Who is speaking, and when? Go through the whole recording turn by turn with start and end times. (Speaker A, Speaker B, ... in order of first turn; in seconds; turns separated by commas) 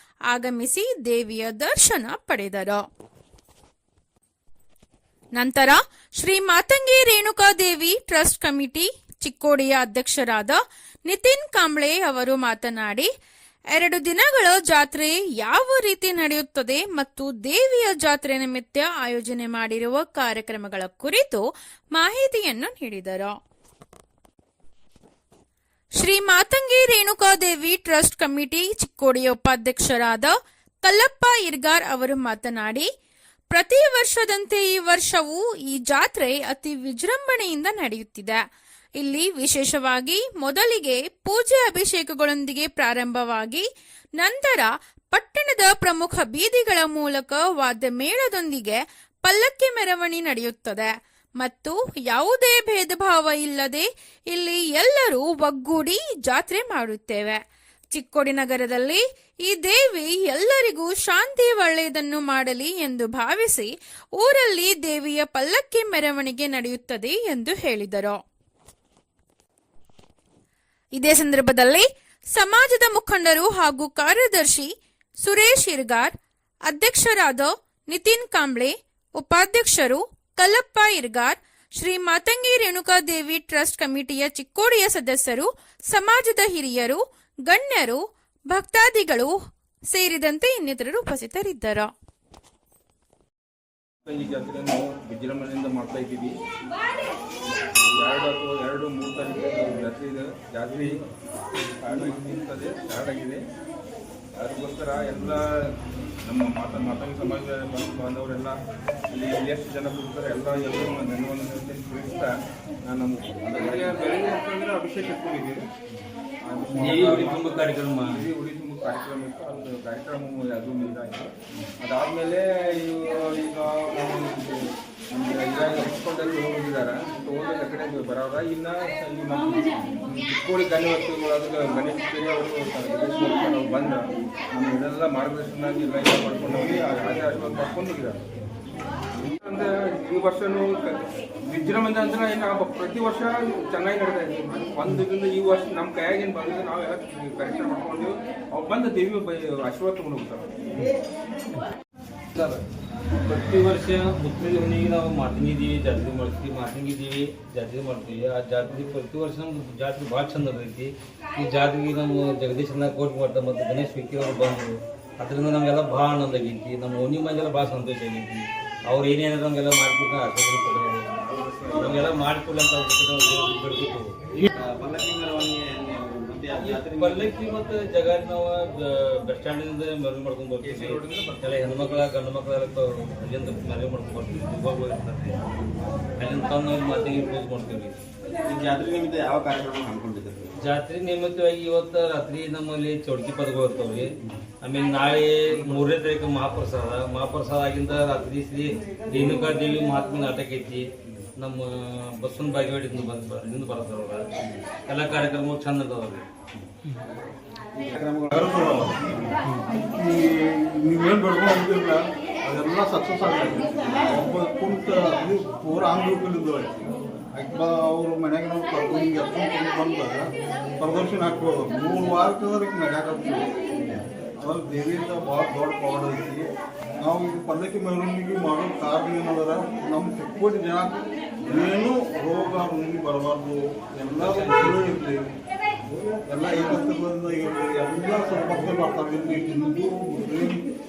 Speaker A: 0.3-2.8, Speaker A: 5.4-13.1, Speaker A: 13.7-23.3, Speaker A: 26.0-32.9, Speaker A: 33.5-38.4, Speaker A: 39.0-43.6, Speaker A: 44.2-57.4, Speaker A: 57.9-68.2, Speaker A: 71.0-74.7, Speaker A: 75.2-76.1, Speaker A: 76.7-89.3, Speaker A: 89.9-91.9, Speaker B: 94.0-96.4, Speaker B: 97.8-101.0, Speaker B: 101.8-103.4, Speaker B: 104.4-105.7, Speaker B: 106.2-108.6, Speaker B: 109.1-112.3, Speaker B: 112.9-115.6, Speaker C: 113.5-113.9, Speaker B: 116.5-134.0, Speaker D: 116.7-118.1, Speaker B: 134.5-138.2, Speaker B: 139.4-150.5, Speaker D: 152.3-152.6, Speaker D: 153.2-171.1, Speaker B: 171.2-172.1, Speaker D: 171.7-174.3, Speaker C: 174.5-177.3, Speaker D: 176.6-185.4, Speaker B: 180.6-181.7, Speaker D: 186.2-188.0, Speaker C: 188.4-190.5, Speaker D: 190.6-204.2, Speaker D: 204.9-206.2, Speaker E: 207.9-208.9, Speaker E: 209.8-216.7, Speaker E: 217.3-226.5, Speaker E: 227.0-235.3, Speaker D: 234.2-234.9, Speaker E: 236.3-240.7